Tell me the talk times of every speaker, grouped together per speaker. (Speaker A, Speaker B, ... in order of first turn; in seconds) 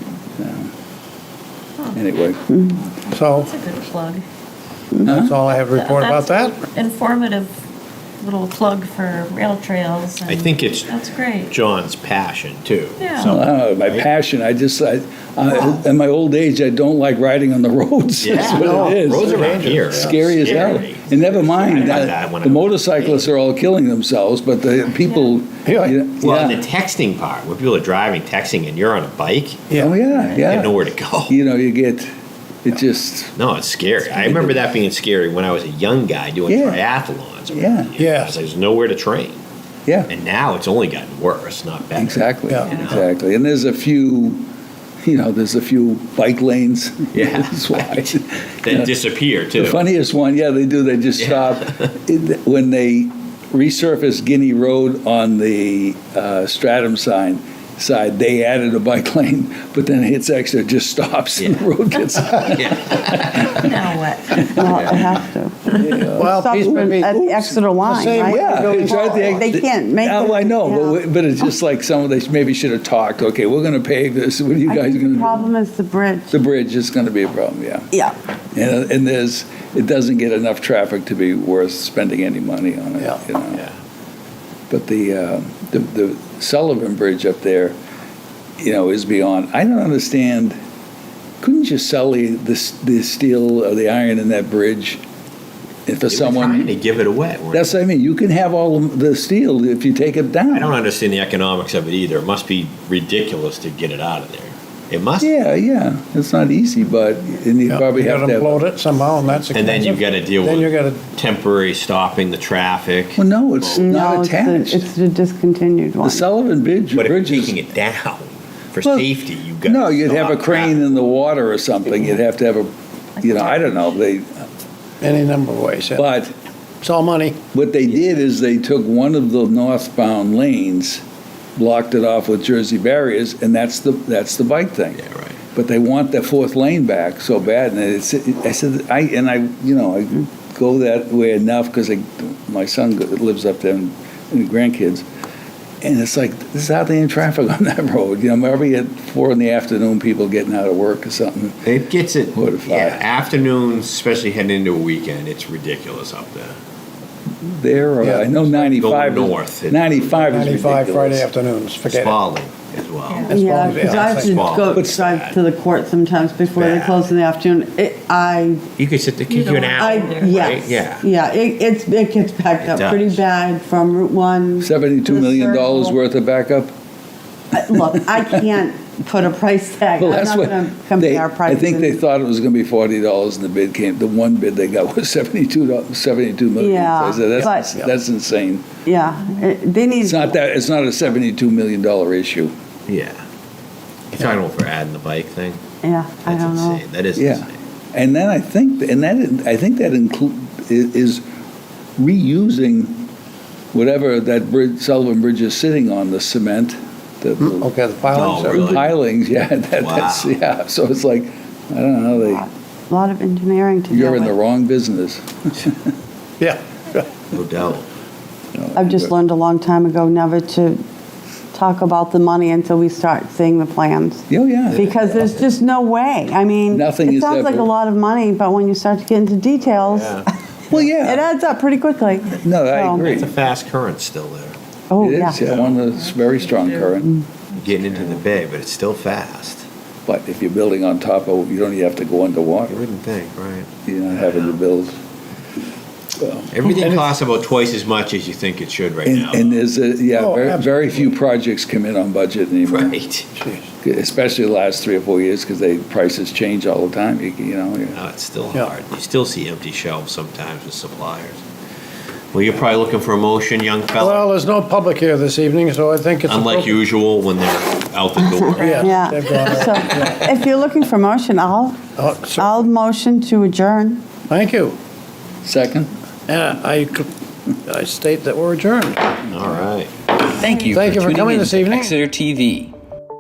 Speaker A: 0.4-0.7, 1.9-2.4, 5.0-5.3, 13.2-26.6, 29.8-32.1, 32.6-33.4, 36.5-36.9, 37.5-37.9, 42.0-44.4, 45.0-49.0, 49.5-65.1, 65.8-67.6, 68.2-75.5, 76.3-77.9, 78.5-83.6, 84.7-87.8, 88.6-90.6, 91.4-95.0, 95.9-96.8, 97.5-100.8, 105.2-108.7, 113.2-114.9, 116.0-117.6, 118.8-124.5, 126.0-126.3, 127.5-131.0, 131.6-135.0, 135.5-145.1, 145.8-151.7, 152.3-153.1, 157.4-161.3, 164.8-165.0, 174.6-176.7, 178.0-178.4, 180.0-188.7, 190.0-192.5, 197.2-201.2, 202.0-203.1, 203.7-207.7, 208.3-212.4, 213.9-215.8, 218.6-219.1, 224.3-224.9, 226.7-227.7, 230.7-231.3, 232.3-233.4, 235.0-237.1, 240.1-242.8, 243.9-245.0, 246.2-246.7, 249.0-253.0, 253.8-258.0, 275.4-275.9, 280.5-280.7
Speaker B: 3.1-3.5, 5.1-6.7, 18.3-20.2, 25.6-26.0, 38.0-38.4, 42.5-42.8, 66.1-67.2, 67.8-69.5, 107.7-111.0, 125.0-126.1, 126.8-127.4, 158.0-158.4, 160.3-162.3, 163.3-164.4, 207.4-208.9, 216.4-217.0, 246.8-247.1, 250.2-251.1, 253.4-253.7, 264.0-266.8, 268.6-270.2, 272.0-272.7, 274.3-274.8, 276.3-277.1, 277.7-279.2, 280.7-282.0
Speaker C: 3.4-4.2, 5.7-7.5, 8.2-11.5, 13.0-13.3, 63.5-64.5, 123.2-123.9
Speaker D: 10.3-14.1, 18.2-23.3, 26.2-29.7, 30.3-31.4, 33.4-39.4, 40.1-43.0, 47.1-49.9, 51.2-51.9, 62.5-63.7, 64.7-65.1, 96.1-97.8, 100.5-105.3, 109.5-113.8, 117.0-120.8, 135.0-135.3, 151.7-156.5, 158.5-160.2, 161.9-165.4, 166.6-167.0, 168.8-171.1, 172.6-173.2, 192.9-193.2, 194.1-195.6, 196.3-197.5, 208.1-209.0, 209.8-210.4, 217.3-217.9, 224.7-225.2, 229.7-230.3, 233.0-234.6, 237.5-239.7, 242.7-244.5, 246.5-249.6, 252.7-253.3, 257.9-261.4, 262.3-264.3, 266.3-269.1, 279.3-279.9
Speaker E: 64.5-71.0, 74.7-76.3, 113.8-116.2, 163.3-168.6, 169.8-176.0, 177.5-182.0, 186.6-187.7, 188.8-190.3, 195.8-196.8, 212.2-214.3, 218.8-220.8, 221.5-230.2, 230.8-233.1, 234.9-235.4, 268.6-271.8, 272.4-274.0
Speaker F: 163.1-163.4, 169.3-170.6, 280.4-282.7